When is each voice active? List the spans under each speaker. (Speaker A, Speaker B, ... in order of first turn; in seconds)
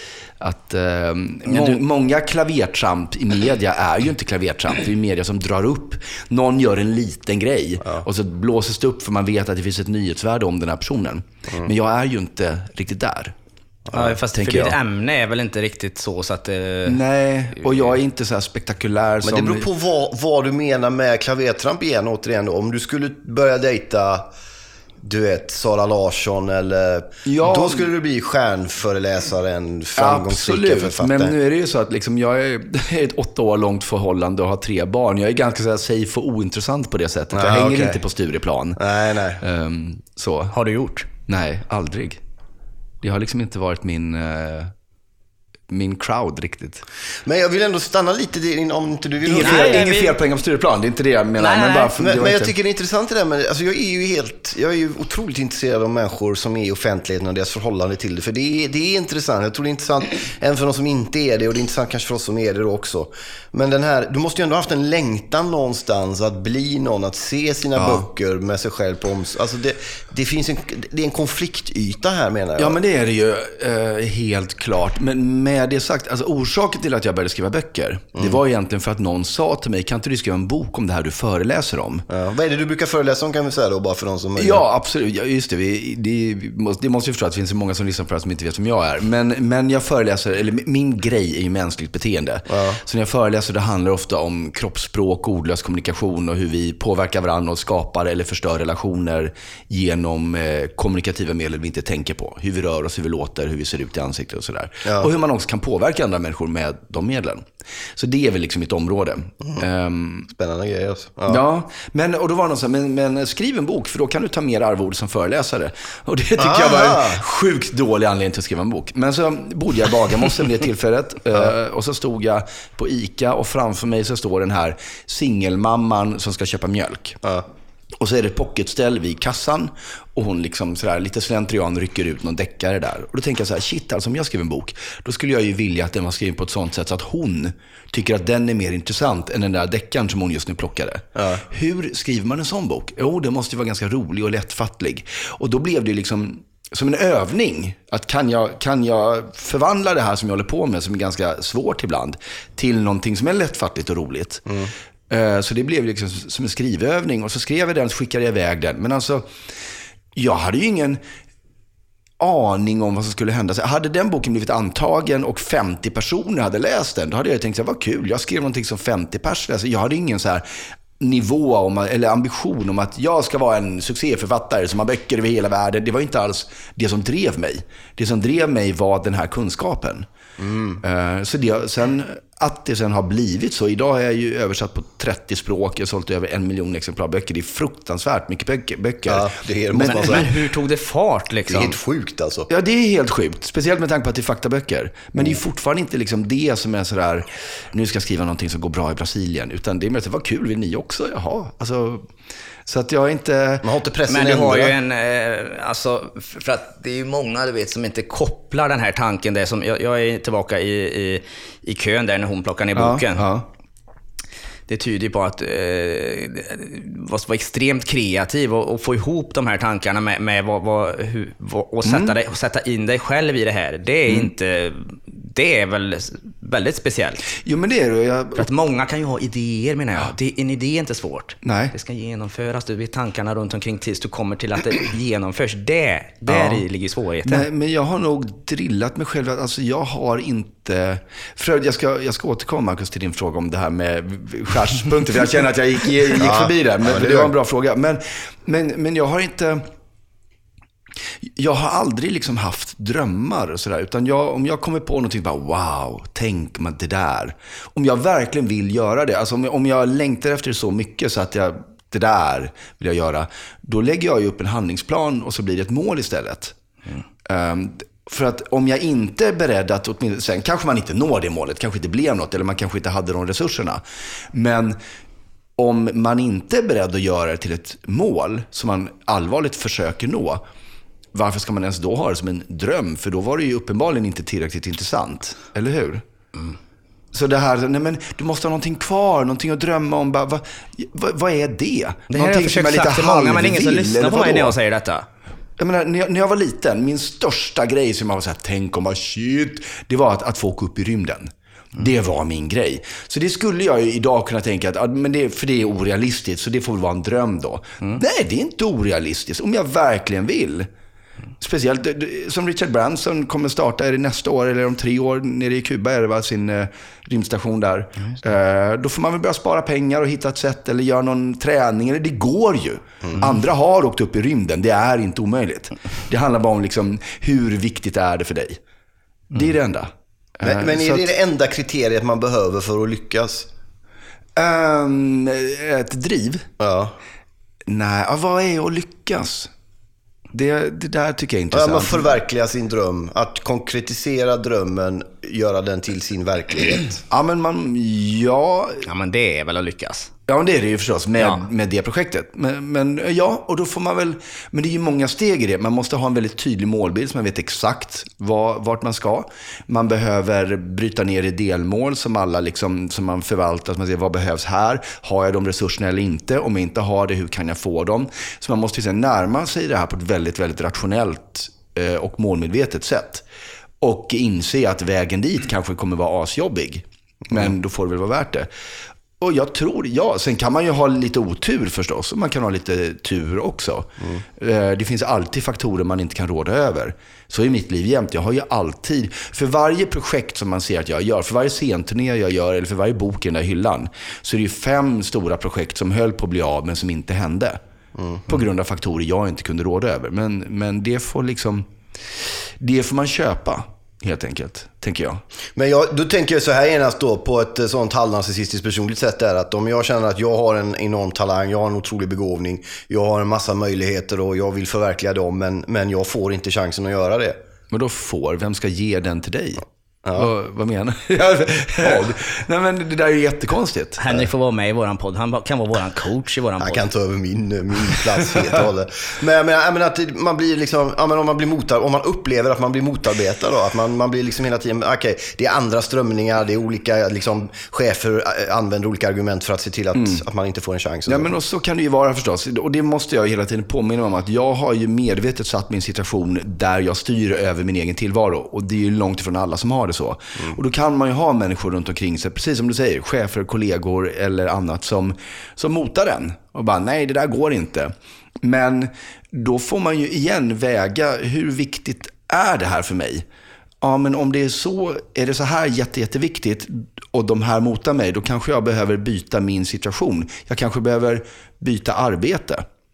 Speaker A: 0.4-13.3, 14.3-14.8, 16.9-19.7, 27.2-27.9, 30.0-38.8, 39.4-40.5, 41.3-42.2, 43.0-44.7, 45.7-46.8, 49.2-52.5, 67.8-68.1, 72.6-82.1, 84.3-110.3, 111.3-127.2, 128.0-154.4, 155.1-159.2, 160.1-161.0, 162.2-180.1, 180.8-190.3, 192.5-202.1, 202.7-203.7, 212.7-213.4, 221.8-222.1, 227.3-228.5, 231.4-231.7, 236.3-236.6, 237.2-249.7, 251.2-266.5, 267.2-273.8, 274.3-274.8, 275.6-280.4, 281.1-286.0, 287.1-294.5, 295.6-310.7, 311.4-328.6, 329.3-331.1, 334.4-336.5, 337.7-339.5, 340.3-342.1, 347.1-348.9, 350.3-373.2, 373.8-378.5, 379.2-397.6, 398.2-401.7, 402.6-405.2, 417.7-424.0, 439.9-440.2, 441.1-463.2, 463.8-472.6
Speaker B: 1.5-1.8, 13.9-17.0, 40.5-41.1, 49.4-50.1, 51.4-51.9, 189.8-191.7, 204.1-213.3, 214.7-227.2, 228.4-237.4, 292.1-295.1, 348.9-350.1, 424.0-426.9
Speaker C: 13.9-14.2, 19.2-24.3, 25.0-31.3, 37.3-38.0, 38.8-39.4, 47.2-49.8, 51.9-72.8, 82.1-84.6, 92.5-92.8, 110.3-111.4, 116.4-117.2, 141.2-141.4, 154.5-154.7, 180.4-180.8, 189.1-190.3, 191.5-192.5, 203.6-204.8, 246.2-247.3, 330.4-333.5, 336.6-336.9, 341.5-347.0, 398.0-398.2, 405.5-417.4, 426.6-441.3